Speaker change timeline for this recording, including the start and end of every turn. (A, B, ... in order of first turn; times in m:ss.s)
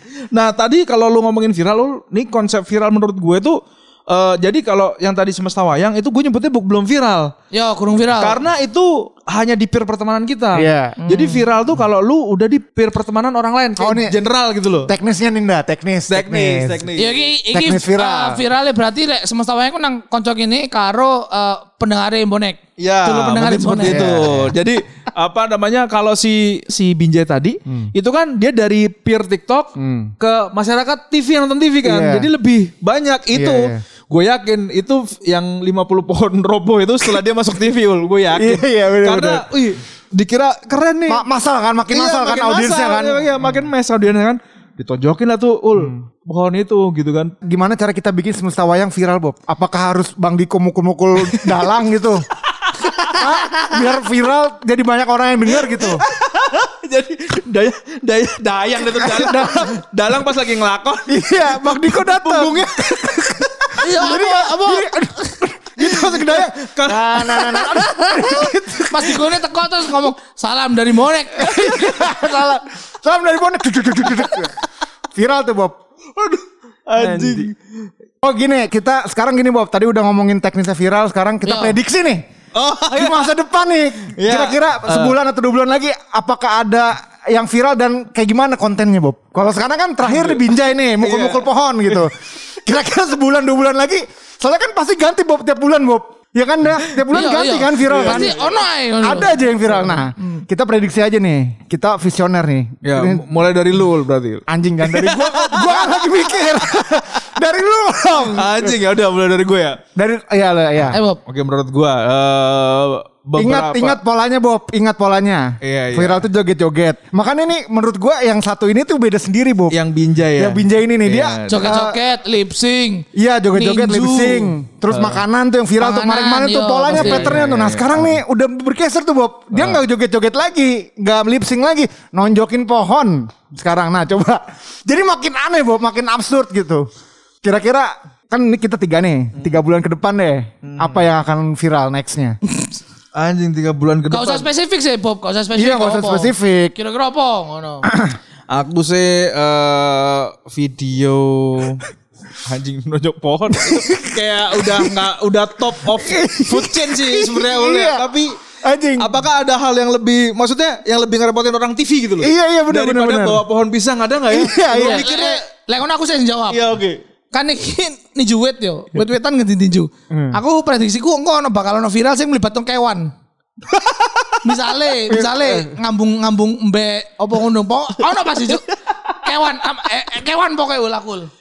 0:00.3-0:07.3 A
0:07.5-0:08.4 B
0:08.2-0:14.9 A
0:10.6-0:11.0 C
0:11.0-0:11.4 B
0:13.8-0:14.2 C
0:14.9-0:16.8 C
0:16.1-0:17.2 A
0:17.0-0:24.1 B
0:17.5-0:18.4 C
0:22.8-0:41.2 A
0:23.8-0:24.6 C
0:29.8-0:30.1 C
0:31.8-0:32.3 C
0:33.3-0:33.8 C
0:38.4-0:39.5 C
0:41.1-0:43.7 C
0:41.9-0:47.3 A
0:47.4-0:52.2 C
0:51.3-0:51.6 A
0:52.6-0:53.6 A
0:53.2-0:56.0 C
0:55.5-1:03.8 A
0:59.0-0:59.7 C
1:01.1-1:09.4 C
1:03.8-1:05.4 B
1:05.8-1:07.7 A
1:07.5-1:12.4 B
1:11.4-1:14.5 C
1:15.1-1:15.8 C
1:16.2-1:17.6 A
1:17.0-1:17.5 C
1:18.2-1:22.2 C
1:21.4-1:21.8 B
1:22.6-1:23.3 A
1:22.9-1:38.3 C
1:24.1-1:25.2 A
1:30.0-1:30.4 A
1:31.0-1:32.1 A
1:37.1-1:39.4 B
1:37.8-1:38.6 A
1:39.0-1:43.2 C
1:42.8-1:46.8 A
1:44.5-1:48.8 C
1:48.3-1:49.8 A
1:50.0-1:51.0 C
1:50.8-1:54.0 A
1:50.9-1:51.2 B
1:53.4-1:59.8 C
1:55.6-1:56.2 A
1:59.7-2:01.8 A
2:00.4-2:02.0 C
2:01.5-2:03.0 B
2:03.1-2:16.9 C
2:03.6-2:05.2 A
2:03.6-2:04.3 B
2:05.8-2:07.4 B
2:06.9-2:08.2 A
2:09.5-2:09.8 A
2:17.4-2:22.4 C
2:20.6-2:21.0 A
2:23.1-2:24.5 A
2:24.1-2:27.9 B
2:25.5-2:26.7 C
2:27.8-2:28.2 C
2:28.5-2:31.9 A
2:32.4-2:38.4 A
2:33.6-2:35.0 C
2:35.9-2:39.2 C
2:39.0-2:45.4 A
2:42.2-2:43.4 C
2:44.3-2:45.2 C
2:44.7-2:46.6 B
2:46.5-2:47.0 A
2:47.3-2:53.1 B
2:50.1-2:50.4 C
2:53.7-2:54.4 A
2:54.4-2:58.7 B
2:55.1-2:55.7 C
2:58.5-2:58.8 A
2:59.2-3:01.3 B